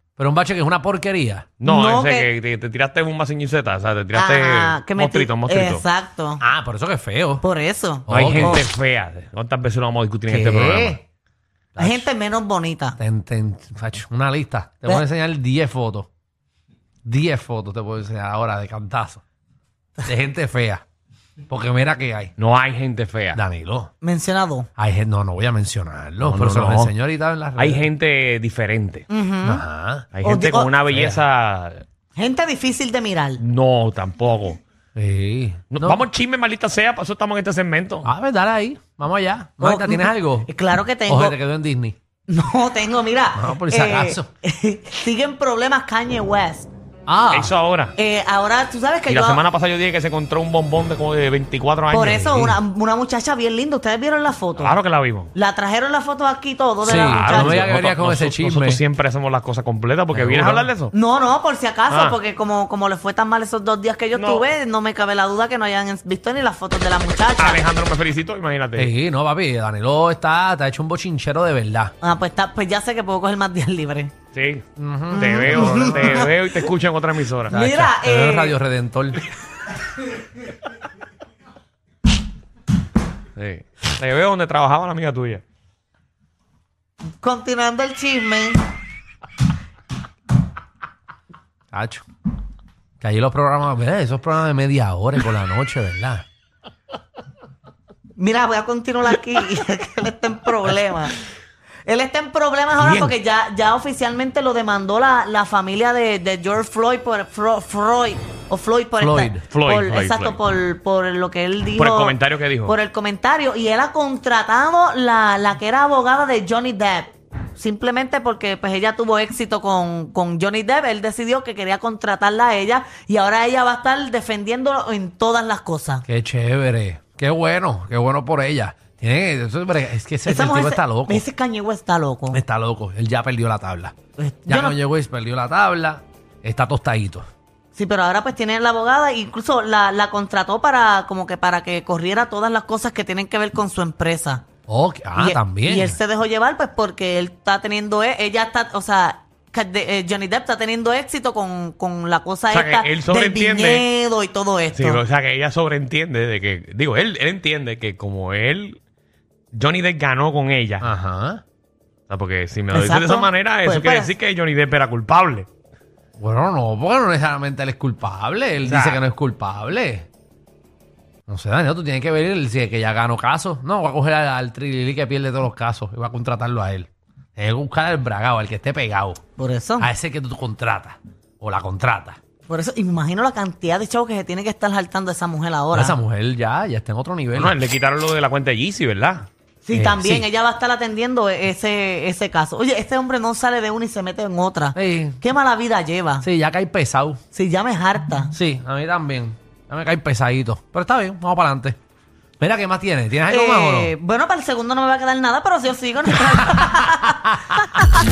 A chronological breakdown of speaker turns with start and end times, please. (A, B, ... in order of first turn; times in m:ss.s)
0:00.2-0:01.5 A
0:01.6-0:05.8 B
0:01.6-0:02.3 C
0:04.1-0:06.4 C
0:06.4-0:07.4 A
0:07.4-0:08.6 C
0:08.1-0:08.7 A
0:08.1-0:11.0 B
0:10.3-0:11.0 A
0:11.7-0:12.0 A
0:11.8-0:13.0 C
0:13.0-0:16.1 A
0:17.0-0:19.2 A
0:20.0-0:20.8 A
0:21.5-0:22.3 A
0:22.4-0:23.4 B
0:23.3-0:23.9 A
0:24.0-0:24.7 C
0:24.8-0:27.8 A
0:26.2-0:26.9 B
0:27.6-0:29.0 B
0:29.1-0:29.6 C
0:29.4-0:30.1 A
0:30.1-0:31.8 B
0:30.2-0:30.7 C
0:30.9-0:31.2 A
0:32.2-0:33.4 C
0:33.4-0:34.6 B
0:35.0-0:36.0 A
0:35.7-0:38.1 B
0:38.0-0:40.5 A
0:39.6-0:41.4 C
0:41.1-0:42.0 A
0:42.3-0:46.7 C
0:43.3-0:44.3 A
0:47.0-0:47.5 A
0:47.3-0:47.9 B
0:48.0-0:49.4 C
0:49.1-0:52.5 B
0:51.9-0:54.8 C
0:52.2-0:52.6 A
0:54.6-0:55.3 B
0:55.3-0:57.7 C
0:56.8-0:58.8 A
0:56.8-1:00.9 B
1:00.1-1:00.7 A
1:00.9-1:07.6 C
1:01.9-1:02.2 B
1:04.1-1:04.4 B
1:07.4-1:08.9 B
1:08.8-1:11.9 A
1:12.0-1:14.1 C
1:14.3-1:17.5 B
1:14.8-1:16.3 A
1:15.1-1:16.3 C
1:17.5-1:18.6 C
1:17.5-1:19.2 A
1:23.4-1:25.4 B
1:27.2-1:28.6 C
1:31.7-1:32.0 A
1:33.0-1:36.2 A
1:38.2-1:41.2 C
1:41.8-2:06.0 C
1:42.8-1:43.1 B
1:49.0-1:49.4 A
1:49.5-1:50.4 B
1:51.8-1:52.7 B
2:06.0-2:11.2 A
2:10.2-2:12.4 C
2:12.3-2:13.9 A
2:14.2-2:14.8 C
2:14.5-2:17.2 A
2:17.7-2:24.4 C
2:24.7-2:26.0 A
2:25.2-2:35.0 C
2:32.5-2:33.8 B
2:34.7-2:38.8 B
2:39.5-2:40.9 B
2:40.8-2:41.4 A
2:42.1-2:45.5 B
2:42.7-2:44.1 C
2:46.2-2:50.1 A
2:48.6-2:49.0 B
2:51.3-2:59.2 A
2:59.4-2:59.9 C
2:59.8-3:02.2 A
3:02.5-3:06.0 C
3:05.7-3:07.5 A
3:07.3-3:09.2 B
3:09.6-3:16.3 C
3:09.7-3:10.3 A
3:14.7-3:15.2 A
3:16.2-3:17.2 A
3:17.3-3:18.3 C
3:18.3-3:21.8 A
3:22.4-3:23.9 A
3:23.3-3:27.2 C
3:26.6-3:27.6 A